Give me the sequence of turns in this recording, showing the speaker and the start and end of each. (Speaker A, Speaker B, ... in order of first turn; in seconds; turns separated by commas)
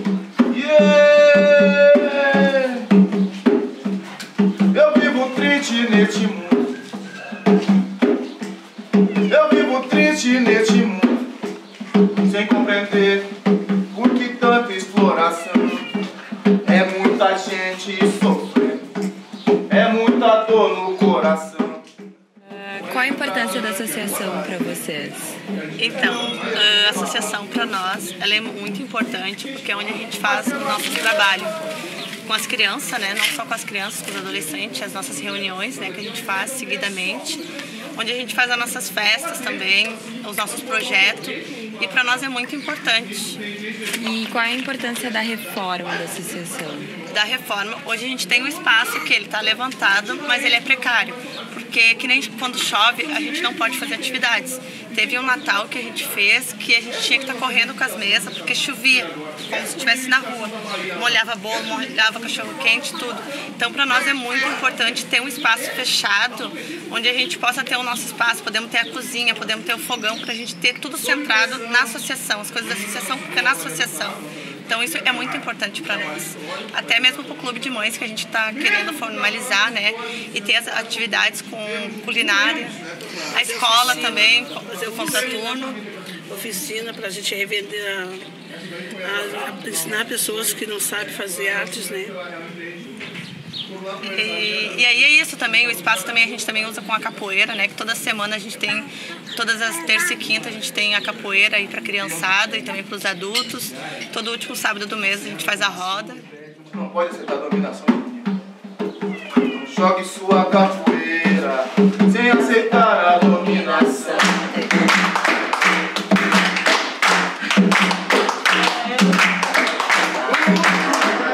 Speaker A: 0.5-2.9, Speaker A: 4.7-6.7, Speaker A: 9.3-11.2, Speaker A: 12.2-13.3, Speaker A: 13.9-15.9, Speaker A: 16.6-18.9, Speaker A: 19.7-21.8, Speaker B: 22.5-25.4, Speaker C: 25.8-31.6, Speaker C: 32.2-43.4, Speaker B: 44.0-46.9, Speaker C: 47.1-85.8, Speaker D: 83.4-88.3, Speaker D: 89.0-92.2, Speaker C: 94.0-106.2, Speaker A: 106.7-108.3, Speaker A: 109.5-114.6, Speaker A: 120.5-120.9